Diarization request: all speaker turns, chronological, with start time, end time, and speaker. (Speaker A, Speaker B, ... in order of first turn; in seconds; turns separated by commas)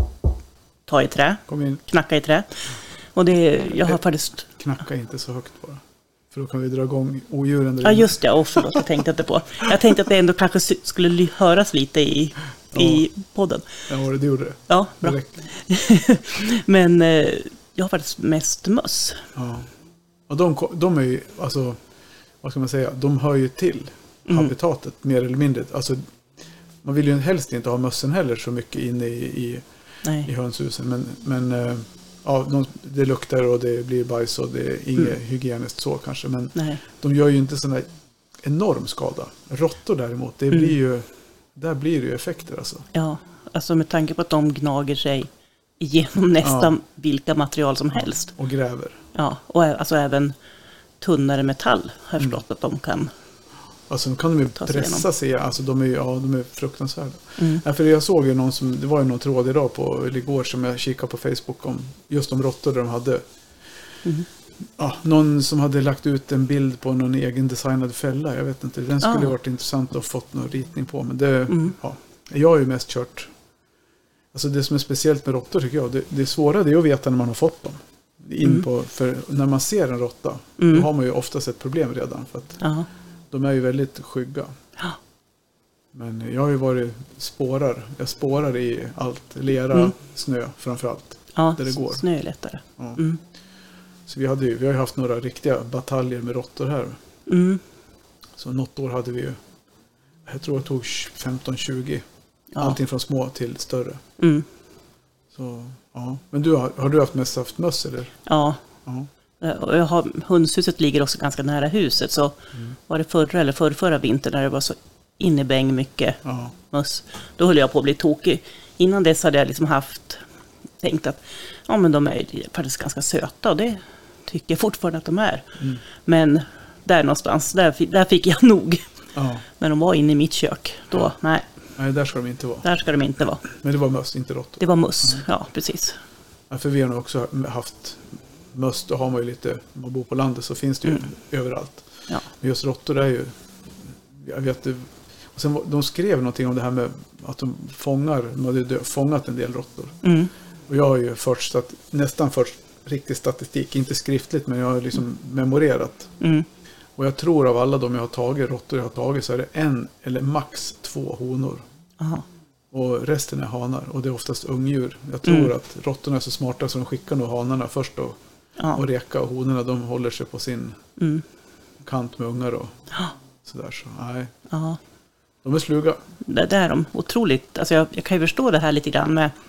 Speaker A: 0.9-4.5, Speaker B: 1.5-1.8, Speaker B: 4.6-8.1, Speaker A: 7.8-13.7, Speaker B: 12.7-13.0, Speaker B: 13.9-15.3, Speaker A: 14.7-19.2, Speaker B: 19.3-19.7, Speaker B: 20.3-21.8, Speaker B: 22.4-26.0, Speaker A: 24.3-24.5, Speaker B: 26.8-29.6, Speaker B: 30.2-37.9, Speaker A: 36.5-36.8, Speaker B: 38.4-42.8, Speaker A: 42.9-45.3, Speaker A: 45.8-48.3, Speaker B: 46.4-46.7, Speaker B: 47.9-49.0, Speaker A: 49.1-50.3, Speaker A: 51.0-53.1, Speaker B: 53.9-63.2, Speaker A: 54.6-55.0, Speaker B: 64.8-73.3, Speaker A: 69.0-69.3, Speaker A: 71.5-71.7, Speaker B: 74.3-82.6, Speaker A: 80.6-80.9, Speaker A: 82.6-82.9, Speaker B: 83.3-84.5, Speaker B: 85.9-92.0, Speaker A: 91.3-93.2, Speaker B: 94.1-97.0, Speaker A: 97.3-97.6, Speaker B: 98.4-99.4, Speaker B: 100.2-102.0, Speaker A: 102.5-102.8, Speaker B: 102.6-104.0, Speaker A: 104.2-104.4, Speaker B: 105.3-108.1, Speaker A: 108.2-108.6, Speaker A: 109.4-112.4, Speaker A: 112.9-120.2, Speaker B: 116.2-116.5, Speaker A: 120.8-125.5, Speaker A: 126.0-128.8, Speaker B: 129.1-129.4, Speaker A: 129.6-131.4, Speaker B: 131.8-132.7, Speaker A: 132.6-133.4, Speaker B: 133.5-135.2, Speaker A: 134.6-136.0, Speaker B: 136.5-143.3, Speaker B: 144.1-150.0, Speaker A: 150.0-150.3, Speaker B: 150.7-156.1, Speaker A: 156.2-156.5, Speaker B: 156.9-161.6, Speaker A: 162.0-162.2, Speaker B: 162.7-168.2, Speaker A: 165.2-165.5, Speaker B: 168.7-170.8, Speaker A: 171.0-171.2, Speaker B: 171.8-172.7, Speaker B: 173.4-174.3, Speaker A: 174.5-174.8, Speaker B: 175.4-176.0, Speaker A: 176.2-179.3